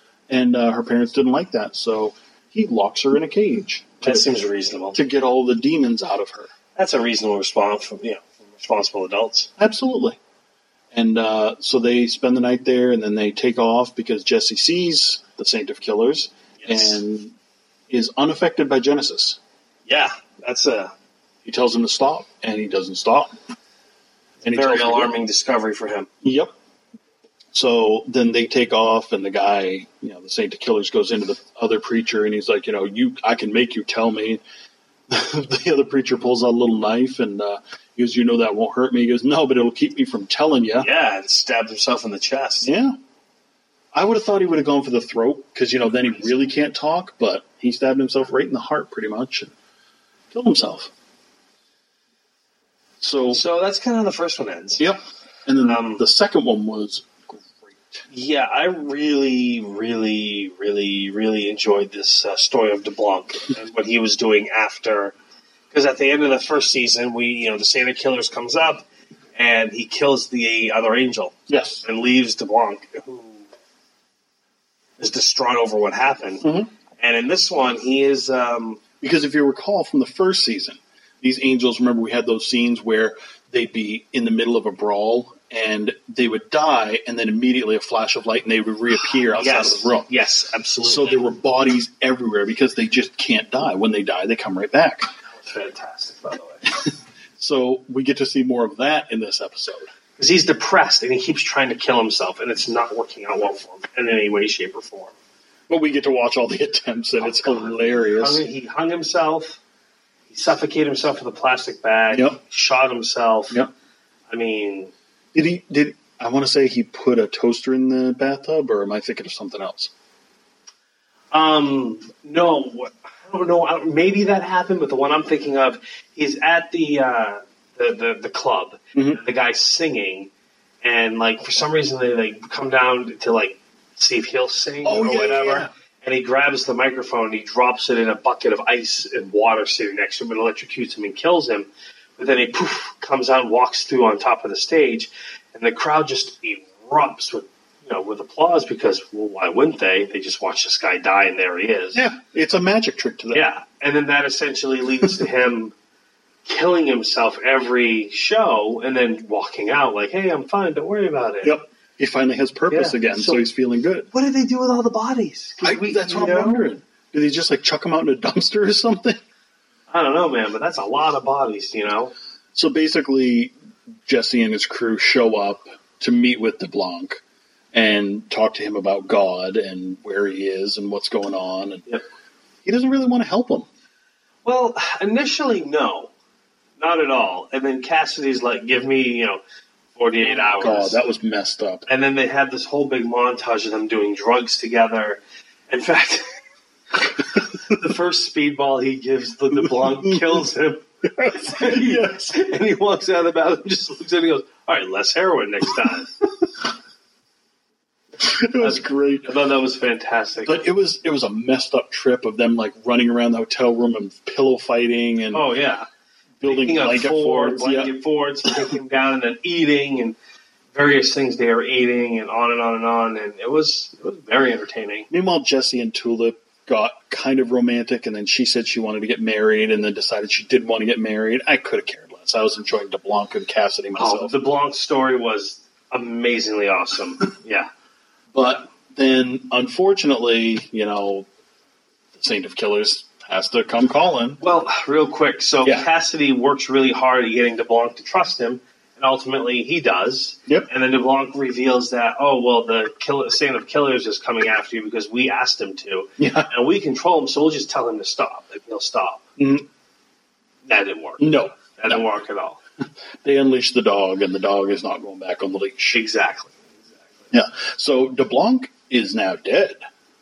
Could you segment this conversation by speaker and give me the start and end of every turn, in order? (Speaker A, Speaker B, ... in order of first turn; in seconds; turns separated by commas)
Speaker A: 0.3-4.3, Speaker B: 4.0-5.0, Speaker A: 4.9-6.5, Speaker B: 6.8-9.5, Speaker A: 9.6-10.2, Speaker A: 10.9-17.3, Speaker B: 16.6-17.0, Speaker A: 17.9-19.4, Speaker B: 19.9-20.9, Speaker A: 21.4-23.3, Speaker A: 24.4-25.1, Speaker B: 24.4-26.1, Speaker A: 26.2-26.5, Speaker A: 27.5-34.4, Speaker A: 35.1-40.9, Speaker B: 40.8-42.7, Speaker A: 42.6-43.0, Speaker A: 43.9-49.5, Speaker A: 50.3-50.9, Speaker A: 53.0-53.4, Speaker B: 53.3-54.8, Speaker A: 54.8-58.0, Speaker B: 55.6-56.0, Speaker B: 58.1-65.2, Speaker B: 65.7-73.5, Speaker A: 71.5-71.8, Speaker B: 75.0-76.5, Speaker A: 76.4-76.7, Speaker B: 77.0-78.8, Speaker A: 79.0-90.1, Speaker B: 89.3-91.2, Speaker A: 90.8-95.1, Speaker B: 95.3-96.8, Speaker A: 97.4-99.9, Speaker B: 100.2-105.2, Speaker A: 105.7-108.4, Speaker B: 107.2-109.6, Speaker B: 110.3-113.6, Speaker A: 112.1-112.4, Speaker B: 114.3-114.9, Speaker A: 115.3-119.9, Speaker B: 121.3-130.3, Speaker A: 128.9-129.2, Speaker B: 130.8-152.1, Speaker A: 134.8-135.7, Speaker A: 151.9-153.5, Speaker B: 153.3-155.7, Speaker B: 156.4-161.6, Speaker A: 161.4-164.1, Speaker B: 162.7-163.4, Speaker B: 164.1-166.7, Speaker A: 165.6-169.2, Speaker B: 169.9-172.1, Speaker A: 172.6-173.5, Speaker A: 174.1-177.2, Speaker A: 177.7-182.0, Speaker A: 182.7-183.7, Speaker B: 184.4-186.1, Speaker B: 186.8-189.4, Speaker B: 189.9-191.0, Speaker A: 190.2-191.9, Speaker B: 191.9-196.4, Speaker B: 196.9-206.2, Speaker A: 201.2-202.1, Speaker A: 208.2-209.3, Speaker B: 208.6-210.6, Speaker A: 210.4-215.4, Speaker B: 215.3-215.9, Speaker A: 216.4-217.9, Speaker B: 216.4-220.2, Speaker B: 220.7-225.1, Speaker A: 225.1-234.3, Speaker B: 234.0-237.7, Speaker A: 238.3-241.3, Speaker A: 242.2-244.4, Speaker B: 244.4-259.3, Speaker A: 256.2-256.5, Speaker A: 259.4-259.7, Speaker B: 260.6-262.6, Speaker A: 261.2-262.0, Speaker A: 263.2-266.0, Speaker B: 265.9-266.9, Speaker A: 267.3-269.8